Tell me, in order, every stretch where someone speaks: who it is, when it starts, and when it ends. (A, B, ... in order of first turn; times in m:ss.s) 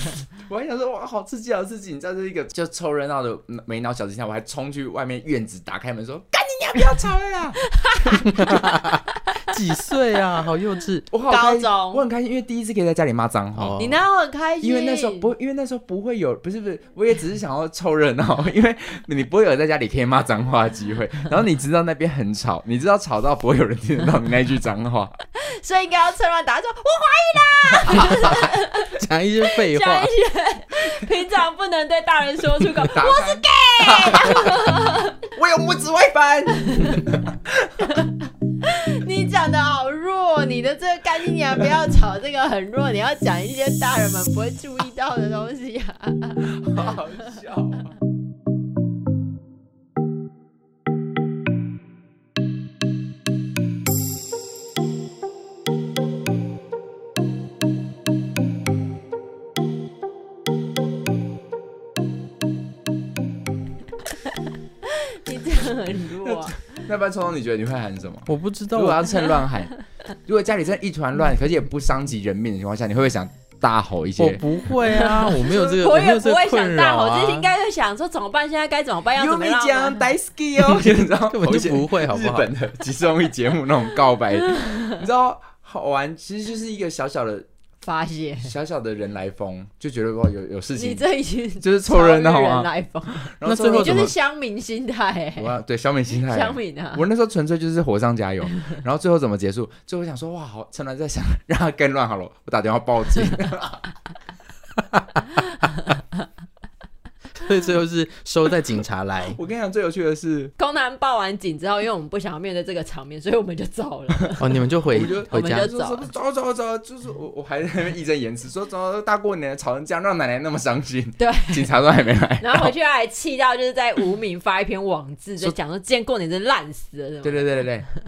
0:00.1-0:08.2 A
0:07.8-0:08.8 B
0:08.3-0:11.1 C
0:11.1-0:13.9 A
0:11.3-0:12.0 B
0:13.6-0:14.0 C
0:13.8-0:15.3 B
0:14.6-0:25.2 A
0:25.4-0:35.2 B
0:27.8-0:28.4 A
0:28.9-0:30.1 C
0:32.8-0:37.9 A
0:36.5-0:37.2 B
0:37.8-0:47.0 B
0:46.5-0:47.9 A
1:04.9-1:06.6 B
1:06.2-1:09.7 A
1:08.3-1:09.1 C
1:10.3-1:14.4 A
1:14.2-1:17.5 C
1:14.9-1:20.1 B
1:19.1-1:27.5 A
1:20.8-1:22.5 C
1:24.4-1:25.0 B
1:27.8-1:28.6 B
1:28.4-1:31.0 A
1:30.8-1:35.6 B
1:31.6-1:34.1 A
1:33.4-1:34.1 C
1:35.4-1:43.9 A
1:36.2-1:37.0 B
1:47.4-1:49.4 C
1:49.3-1:50.5 A
1:50.6-1:54.6 B
1:54.4-1:55.7 C
1:54.9-2:02.7 A
1:55.3-1:56.1 B
2:01.2-2:01.7 B
2:02.4-2:07.7 B
2:07.2-2:07.9 A